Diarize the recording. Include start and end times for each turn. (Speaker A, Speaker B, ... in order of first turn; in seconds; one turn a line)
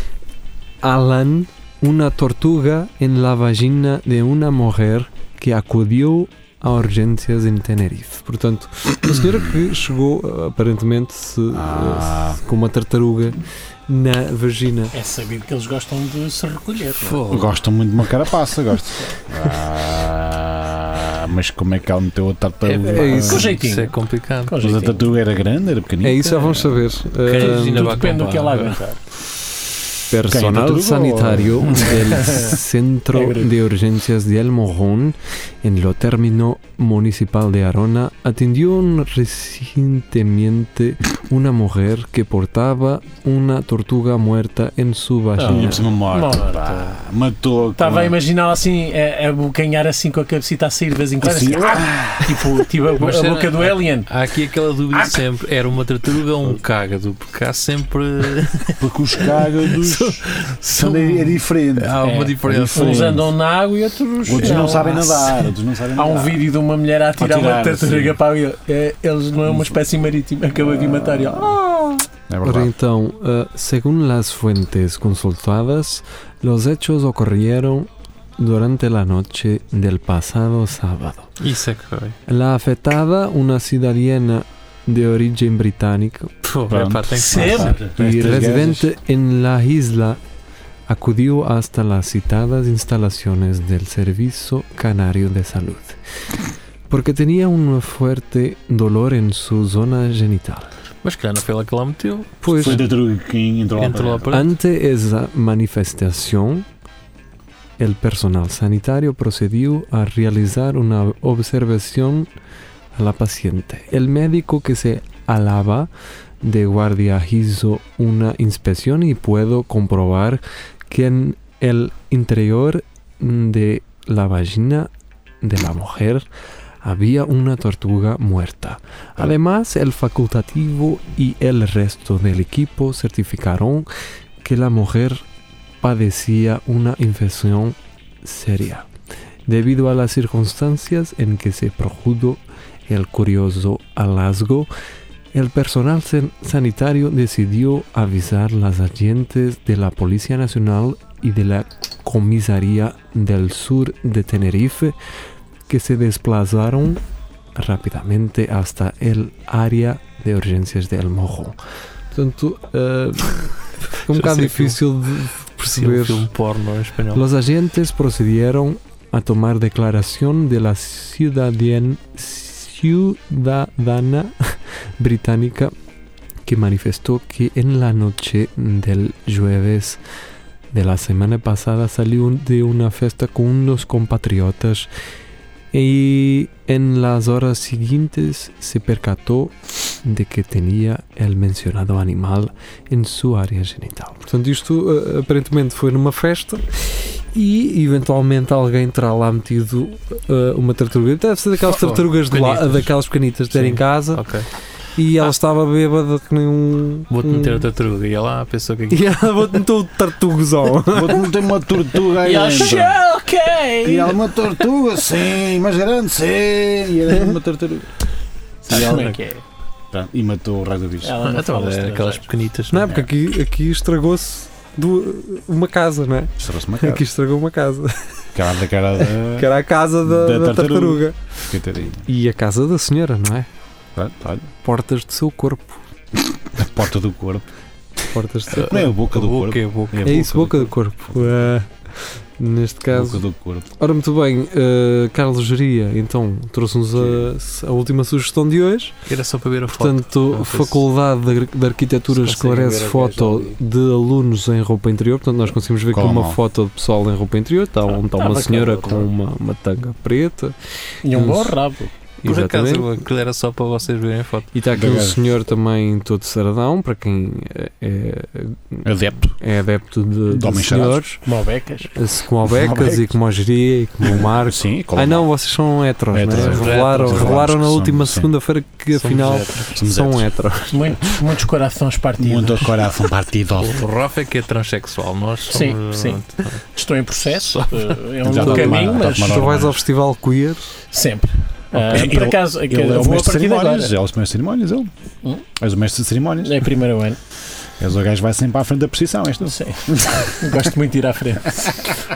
Speaker A: 0.8-13.4
Speaker B: 11.5-12.4
Speaker A: 13.9-14.9
Speaker C: 14.9-17.4
Speaker D: 17.0-17.5
Speaker B: 17.3-23.5
Speaker D: 22.6-24.6
Speaker A: 22.9-23.4
Speaker C: 23.1-23.9
Speaker C: 24.5-25.1
Speaker B: 24.6-26.3
Speaker A: 26.0-27.9
Speaker C: 26.3-26.7
Speaker D: 27.2-28.8
Speaker C: 27.2-29.0
Speaker A: 30.1-45.9
Speaker B: 30.2-32.0
Speaker C: 32.1-32.5
Speaker C: 33.1-33.5
Speaker C: 45.4-47.0
Speaker B: 45.5-48.2
Speaker C: 47.8-54.1
Speaker B: 51.2-52.4
Speaker D: 52.9-63.3
Speaker B: 58.8-63.3
Speaker C: 62.0-71.6
Speaker B: 64.3-66.4
Speaker D: 64.5-65.0
Speaker B: 67.2-68.2
Speaker B: 71.8-72.7
Speaker A: 72.4-81.3
Speaker D: 81.4-82.2
Speaker A: 82.3-86.3
Speaker D: 86.4-87.8
Speaker B: 86.7-88.9
Speaker C: 87.2-87.9
Speaker A: 88.0-90.2
Speaker A: 90.9-96.0
Speaker A: 96.9-100.7
Speaker D: 101.0-102.8
Speaker A: 102.4-102.9
Speaker B: 102.5-104.3
Speaker D: 103.8-104.6
Speaker A: 104.3-106.7
Speaker A: 107.8-112.3
Speaker A: 113.0-115.9
Speaker A: 116.4-124.9
Speaker A: 125.4-126.3
Speaker A: 126.8-133.9
Speaker A: 134.4-135.2
Speaker A: 135.8-138.9
Speaker A: 139.5-144.7
Speaker A: 145.3-154.9
Speaker A: 155.7-157.0
Speaker A: 157.6-161.6
Speaker A: 162.1-166.3
Speaker D: 164.1-164.8
Speaker D: 165.7-167.2
Speaker A: 167.1-175.7
Speaker A: 176.4-180.0
Speaker A: 180.7-184.9
Speaker A: 185.7-204.2
Speaker D: 201.6-203.0
Speaker D: 203.5-204.5
Speaker A: 204.9-207.6
Speaker D: 207.1-209.1
Speaker A: 208.9-211.4
Speaker B: 210.9-213.0
Speaker C: 212.1-214.3
Speaker B: 213.8-217.9
Speaker C: 218.7-219.4
Speaker D: 218.7-219.1
Speaker B: 219.9-221.2
Speaker C: 221.0-222.3
Speaker D: 221.2-222.9
Speaker A: 222.7-228.0
Speaker B: 222.8-223.1
Speaker B: 226.4-227.0
Speaker B: 228.3-229.5
Speaker A: 229.0-231.2
Speaker B: 230.0-232.1
Speaker A: 232.0-233.5
Speaker B: 234.0-234.5
Speaker A: 234.6-235.8
Speaker B: 236.5-237.4
Speaker A: 238.1-238.9
Speaker B: 238.5-240.6
Speaker D: 238.7-240.5
Speaker A: 240.0-241.7
Speaker A: 242.4-248.9
Speaker B: 242.9-243.7
Speaker B: 246.9-247.3
Speaker D: 249.1-250.8
Speaker A: 249.7-260.6
Speaker D: 252.1-253.6
Speaker B: 255.9-256.4
Speaker C: 257.9-259.1
Speaker C: 261.0-261.9
Speaker A: 261.1-261.6
Speaker A: 262.2-262.9
Speaker D: 262.2-264.5
Speaker A: 264.5-271.2
Speaker B: 264.7-265.2
Speaker B: 268.9-269.4
Speaker B: 270.3-271.1
Speaker C: 271.2-271.9
Speaker A: 271.9-281.1
Speaker B: 272.4-273.1
Speaker B: 274.0-275.3
Speaker B: 276.1-278.3
Speaker D: 276.4-277.5
Speaker D: 278.9-279.7
Speaker B: 279.7-280.3
Speaker C: 280.7-282.8
Speaker B: 282.2-283.8
Speaker D: 283.6-286.6
Speaker C: 285.5-286.2
Speaker C: 286.7-289.3
Speaker D: 287.2-288.8
Speaker B: 288.2-289.8
Speaker A: 288.7-290.7
Speaker C: 290.9-293.9
Speaker B: 291.7-294.9
Speaker B: 295.6-296.6
Speaker C: 296.4-297.2
Speaker B: 297.8-300.2
Speaker C: 299.5-301.9